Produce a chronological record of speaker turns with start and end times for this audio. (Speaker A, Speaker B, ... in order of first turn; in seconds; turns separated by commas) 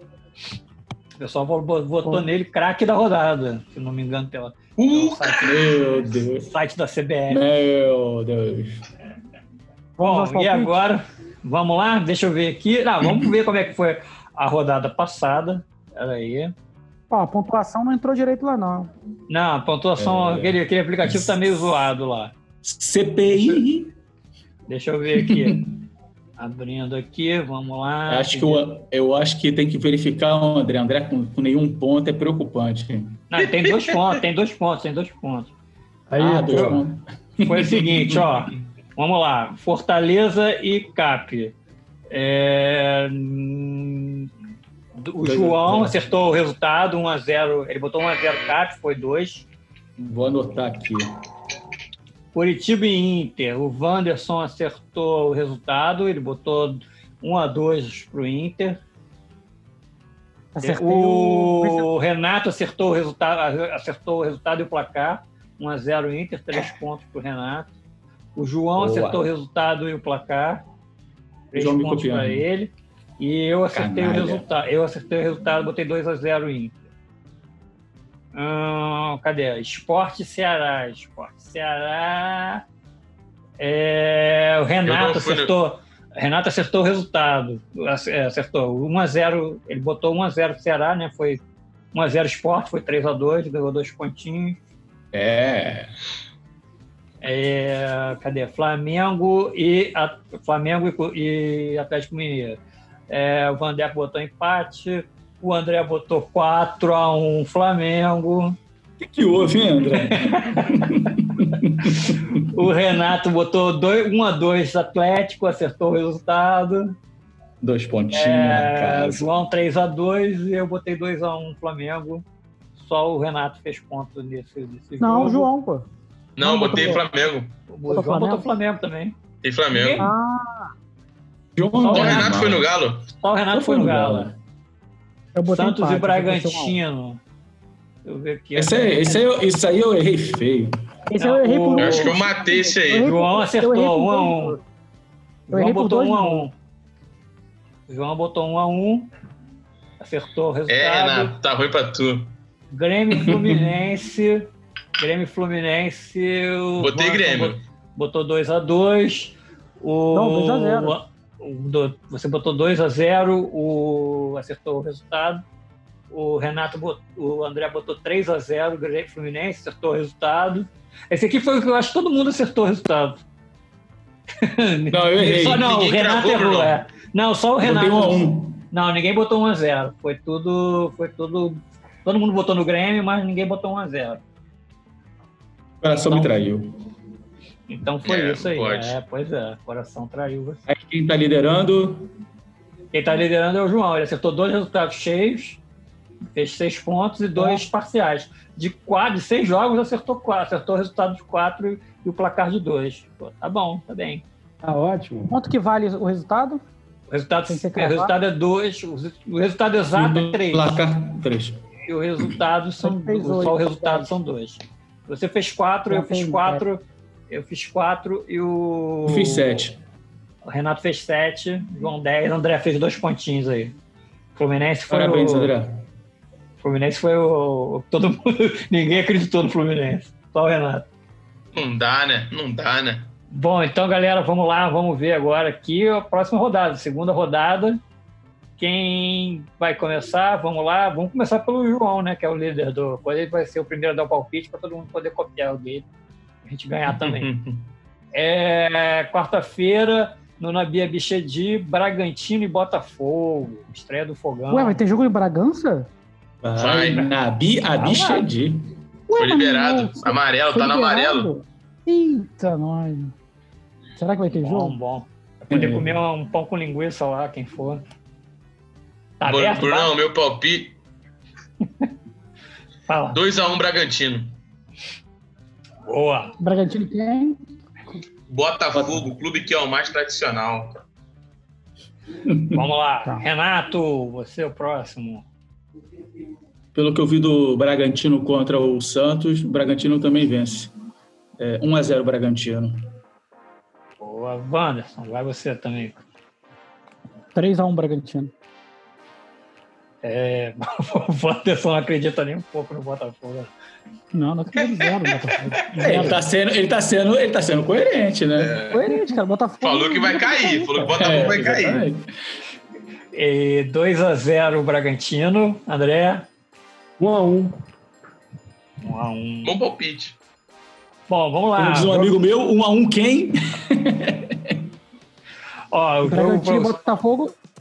Speaker A: 1.2-5.7, Speaker B: 4.8-5.6, Speaker C: 5.4-6.5, Speaker A: 6.3-7.4, Speaker C: 7.3-8.8, Speaker A: 10.0-16.5, Speaker D: 10.0-10.8, Speaker D: 17.1-18.9, Speaker A: 19.3-22.3, Speaker C: 20.0-21.6, Speaker C: 22.6-23.9, Speaker A: 23.3-23.6, Speaker A: 24.7-25.7, Speaker C: 25.1-25.8, Speaker A: 26.4-28.7, Speaker C: 28.1-33.2, Speaker A: 33.3-35.5, Speaker B: 33.4-34.2, Speaker E: 36.1-36.8, Speaker C: 36.2-38.5, Speaker A: 36.2-36.8, Speaker A: 37.4-41.5, Speaker A: 42.1-44.3, Speaker A: 45.0-49.5, Speaker C: 45.2-46.0, Speaker C: 50.0-51.1, Speaker A: 52.3-58.8, Speaker D: 60.5-61.9, Speaker A: 60.6-67.7, Speaker A: 68.4-70.6, Speaker C: 68.8-69.2, Speaker A: 71.5-76.8, Speaker C: 71.5-72.4, Speaker C: 73.7-74.5, Speaker A: 78.3-82.6, Speaker A: 83.6-91.4, Speaker B: 84.8-85.5, Speaker A: 91.9-94.6, Speaker C: 95.1-95.9, Speaker A: 97.2-102.6, Speaker A: 103.1-108.6, Speaker C: 109.0-112.5, Speaker A: 110.0-111.1, Speaker A: 111.8-117.0, Speaker C: 117.6-119.2, Speaker A: 118.1-122.2, Speaker A: 122.8-125.5, Speaker D: 125.0-125.9, Speaker B: 126.4-127.5, Speaker D: 126.4-127.0, Speaker A: 127.7-129.2, Speaker D: 127.9-128.5, Speaker B: 129.4-130.1, Speaker A: 129.7-130.1, Speaker D: 130.0-130.7, Speaker C: 131.6-132.7, Speaker A: 131.8-132.4, Speaker B: 131.9-133.1, Speaker A: 133.2-134.3, Speaker C: 133.5-134.4, Speaker D: 135.3-136.8, Speaker A: 135.5-137.2, Speaker A: 138.1-139.3, Speaker C: 138.6-140.7, Speaker D: 141.1-144.6, Speaker A: 141.2-142.2, Speaker B: 141.8-143.1, Speaker A: 143.0-144.6, Speaker A: 145.5-146.5, Speaker D: 145.5-146.5, Speaker A: 147.9-149.1, Speaker A: 150.0-151.4, Speaker B: 150.7-152.3, Speaker A: 152.7-165.4, Speaker C: 153.1-153.6, Speaker B: 156.8-157.6, Speaker D: 160.1-161.0, Speaker A: 166.1-173.2, Speaker A: 174.4-184.2, Speaker C: 174.9-175.7, Speaker B: 175.5-176.8, Speaker C: 177.6-178.7, Speaker C: 185.8-186.7, Speaker A: 186.1-186.4, Speaker A: 187.7-190.6, Speaker B: 188.1-189.0, Speaker C: 190.7-192.1, Speaker A: 192.9-195.6, Speaker A: 196.3-204.2, Speaker E: 204.6-205.3, Speaker D: 205.3-206.6, Speaker A: 207.1-210.8, Speaker D: 207.5-208.1, Speaker C: 209.9-211.6, Speaker A: 211.9-219.7, Speaker D: 212.8-214.1, Speaker D: 215.9-216.6, Speaker C: 219.1-219.8, Speaker A: 220.4-223.8, Speaker A: 224.3-225.5, Speaker C: 224.9-225.8, Speaker A: 226.6-230.9, Speaker B: 231.6-233.1, Speaker A: 233.3-237.8, Speaker A: 238.6-245.9, Speaker A: 246.4-247.3, Speaker B: 246.9-247.7, Speaker A: 248.1-254.8, Speaker D: 254.5-255.9, Speaker C: 256.4-258.7, Speaker B: 256.6-257.1, Speaker A: 257.8-258.3, Speaker D: 259.1-263.1, Speaker B: 259.1-261.3, Speaker D: 264.0-264.8, Speaker A: 264.3-267.8, Speaker C: 265.5-266.0, Speaker A: 269.2-269.9, Speaker B: 269.2-270.8, Speaker A: 272.9-273.2, Speaker B: 273.1-274.3, Speaker A: 275.9-276.4, Speaker D: 276.4-277.4, Speaker B: 278.3-280.8, Speaker C: 278.7-279.1, Speaker C: 282.3-282.6, Speaker A: 282.5-285.3, Speaker C: 286.8-290.7, Speaker C: 291.4-292.8, Speaker A: 294.0-296.0, Speaker D: 297.4-298.3, Speaker A: 300.0-303.5, Speaker D: 304.1-306.2, Speaker C: 305.8-308.6, Speaker B: 308.4-309.1, Speaker D: 308.7-311.4, Speaker B: 309.6-311.9, Speaker C: 310.9-312.1, Speaker A: 313.1-316.3, Speaker E: 317.0-317.6, Speaker A: 318.8-319.6, Speaker B: 319.4-320.2, Speaker A: 321.1-322.1, Speaker C: 321.6-324.6, Speaker A: 325.7-326.8, Speaker D: 326.0-327.3